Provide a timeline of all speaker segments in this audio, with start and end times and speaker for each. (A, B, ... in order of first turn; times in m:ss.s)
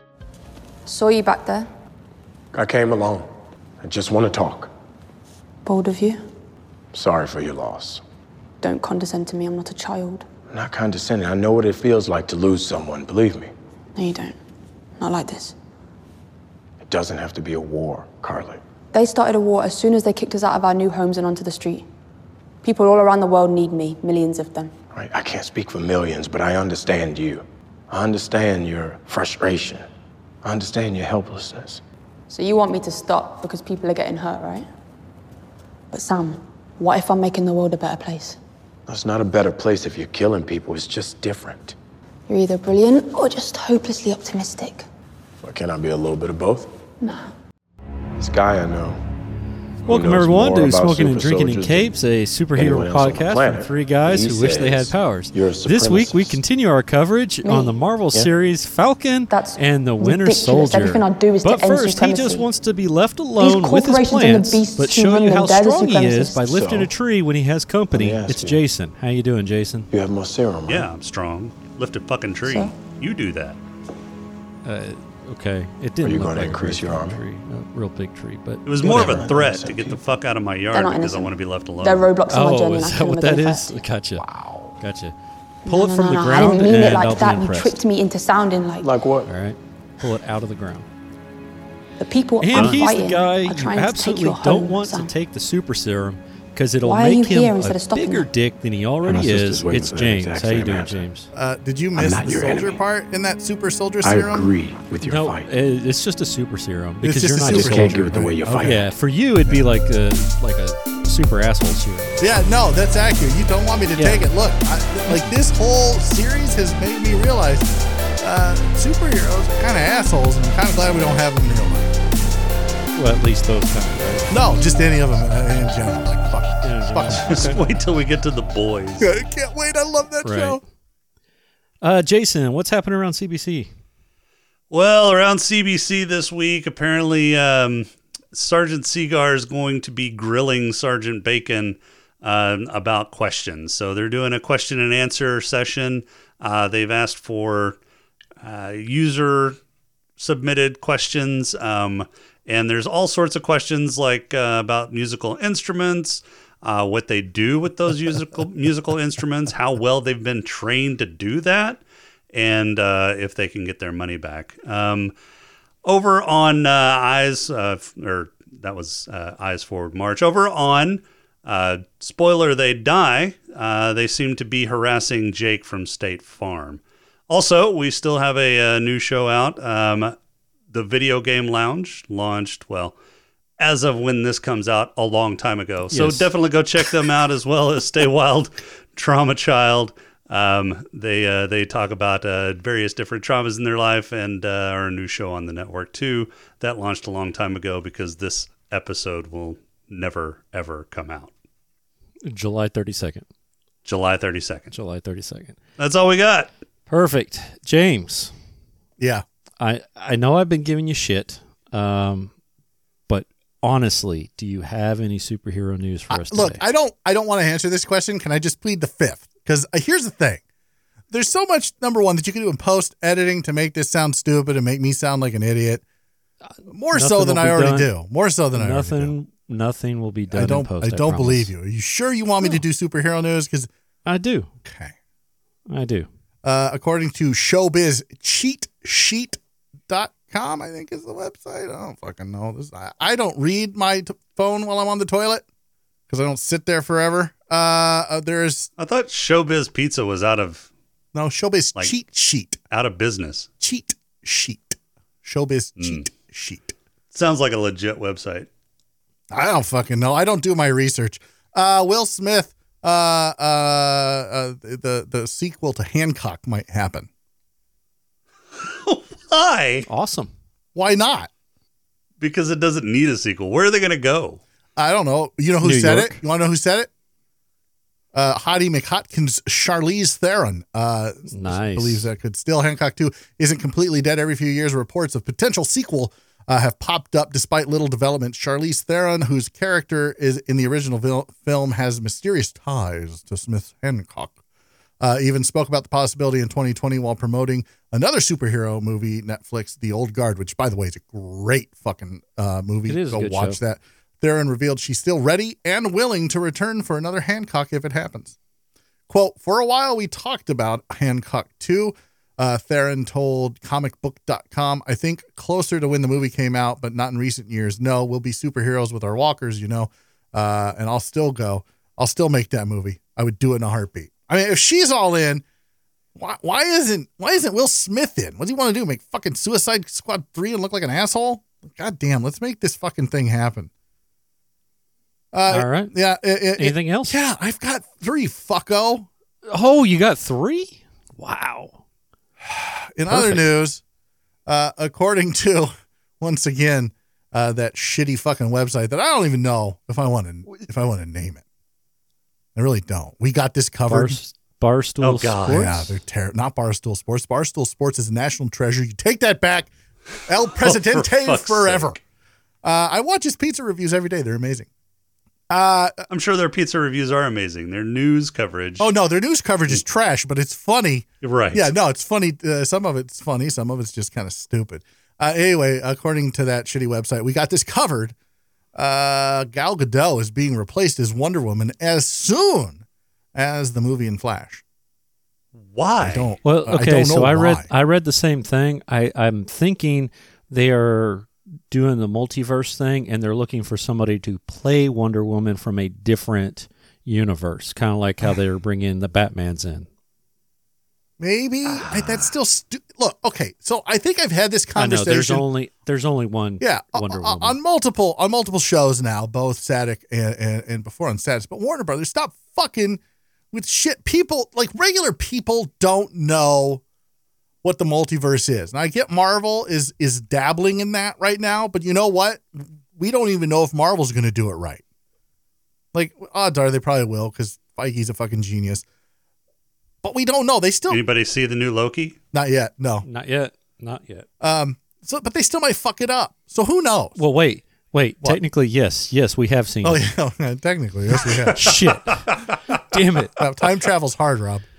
0:00.9-0:01.7 A
0:02.5-0:03.2 B
0:03.8-0:04.7 B
0:05.6-0:06.2 A
0:06.9-0:08.0 B
0:08.6-0:10.2 A
0:10.5-0:13.5 B
0:14.0-0:14.4 A
0:15.0-0:15.5 A
0:16.8-0:18.6 B
0:18.9-0:21.8 A
0:22.6-0:24.7 A
0:24.9-0:29.8 B
0:30.4-0:31.8 B
0:32.3-0:34.6 A
0:35.9-0:38.4 A
0:38.9-0:41.7 B
0:42.3-0:44.8 A
0:45.4-0:46.7 B
0:47.0-0:47.3 A
0:48.2-0:49.0 B
0:49.9-0:51.9 B
0:49.9-1:09.9 C
0:52.5-0:56.4 B
0:57.4-0:57.8 A
0:59.3-1:02.5 A
1:03.4-1:06.4 A
1:06.4-1:06.9 B
1:07.9-1:08.6 B
1:09.9-1:10.9 B
1:10.7-1:13.6 D
1:12.4-1:12.7 A
1:14.6-1:19.4 C
1:16.0-1:17.2 B
1:18.6-1:22.1 D
1:18.8-1:20.0 B
1:20.7-1:23.8 A
1:22.3-1:24.2 C
1:24.2-1:24.8 B
1:24.8-1:25.1 C
1:25.6-1:28.9 A
1:25.7-1:27.8 C
1:28.8-1:29.3 B
1:29.2-1:30.9 C
1:32.0-1:35.1 A
1:32.4-1:41.3 C
1:32.5-1:32.9 D
1:36.8-1:38.3 A
1:39.0-1:41.0 B
1:41.3-1:44.5 E
1:42.0-1:42.8 B
1:44.0-1:45.5 B
1:45.0-1:52.2 C
1:47.0-1:48.8 E
1:47.4-1:49.6 B
1:52.2-2:01.9 E
1:54.0-1:54.2 C
1:55.1-1:55.3 C
2:02.9-2:04.4 C
2:04.3-2:07.6 E
2:06.6-2:07.6 C
2:07.2-2:09.1 D
2:09.0-2:10.6 E
2:10.2-2:10.6 C
2:11.8-2:13.7 C
2:14.7-2:27.8 D
2:28.4-2:29.6 D
2:30.2-2:41.8 D
2:42.3-2:45.1 D
2:45.8-3:00.2 D
3:00.7-3:03.0 D
3:03.6-3:21.3 D
3:05.9-3:06.3 C
3:22.2-3:23.2 C
3:23.8-3:24.7 D
3:24.7-3:25.6 C
3:25.8-3:26.5 D
3:26.9-3:28.3 C
3:29.0-3:29.2 E
3:29.6-3:32.3 C
3:33.1-3:36.6 C
3:36.1-3:40.4 E
3:41.1-3:45.8 E
3:46.7-3:49.1 E
3:46.9-3:47.9 C
3:48.5-3:51.5 C
3:50.3-3:53.7 E
3:54.0-3:54.5 C
3:54.6-3:54.9 E
3:55.7-3:56.1 C
3:56.4-4:05.4 E
4:06.1-4:08.7 E
4:08.8-4:10.7 D
4:11.1-4:12.6 E
4:12.7-4:13.5 D
4:13.6-4:16.7 E
4:15.8-4:16.1 D
4:17.1-4:18.5 D
4:19.3-4:27.1 E
4:28.6-4:29.9 D
4:29.9-4:30.3 C
4:30.7-4:31.3 E
4:32.2-4:34.4 D
4:34.8-4:36.9 E
4:35.6-4:36.2 C
4:38.1-4:54.4 E
4:41.3-4:42.1 C
4:55.0-5:08.3 E
5:02.9-5:03.6 C
5:09.1-5:25.4 E
5:26.1-5:33.7 E
5:35.3-5:39.1 E
5:35.5-5:35.9 C
5:36.6-5:37.2 C
5:39.5-5:41.8 C
5:42.4-5:43.8 E
5:43.1-5:43.4 C
5:44.4-5:51.4 E
5:52.5-5:54.2 E
5:53.9-5:55.9 C
5:55.0-5:55.6 D
5:55.5-5:59.7 E
6:00.2-6:02.0 E
6:00.6-6:01.9 D
6:02.6-6:04.7 E
6:05.5-6:06.0 E
6:06.1-6:08.9 D
6:08.8-6:18.1 E
6:11.2-6:11.7 D
6:18.7-6:22.8 E
6:23.3-6:24.6 E
6:25.6-6:26.3 D
6:26.0-6:27.7 E
6:26.4-6:39.9 C
6:41.2-6:45.4 E
6:44.8-6:47.6 C
6:46.6-6:53.0 E
6:53.5-6:56.8 E
6:57.6-7:04.8 E
7:05.9-7:08.8 E
7:10.0-7:11.0 E
7:10.9-7:12.2 D
7:12.3-7:13.0 E
7:13.0-7:14.2 C
7:14.4-7:17.2 E
7:17.2-7:20.0 C
7:19.8-7:21.8 E
7:21.5-7:22.3 C
7:22.9-7:23.4 C
7:23.4-7:24.6 E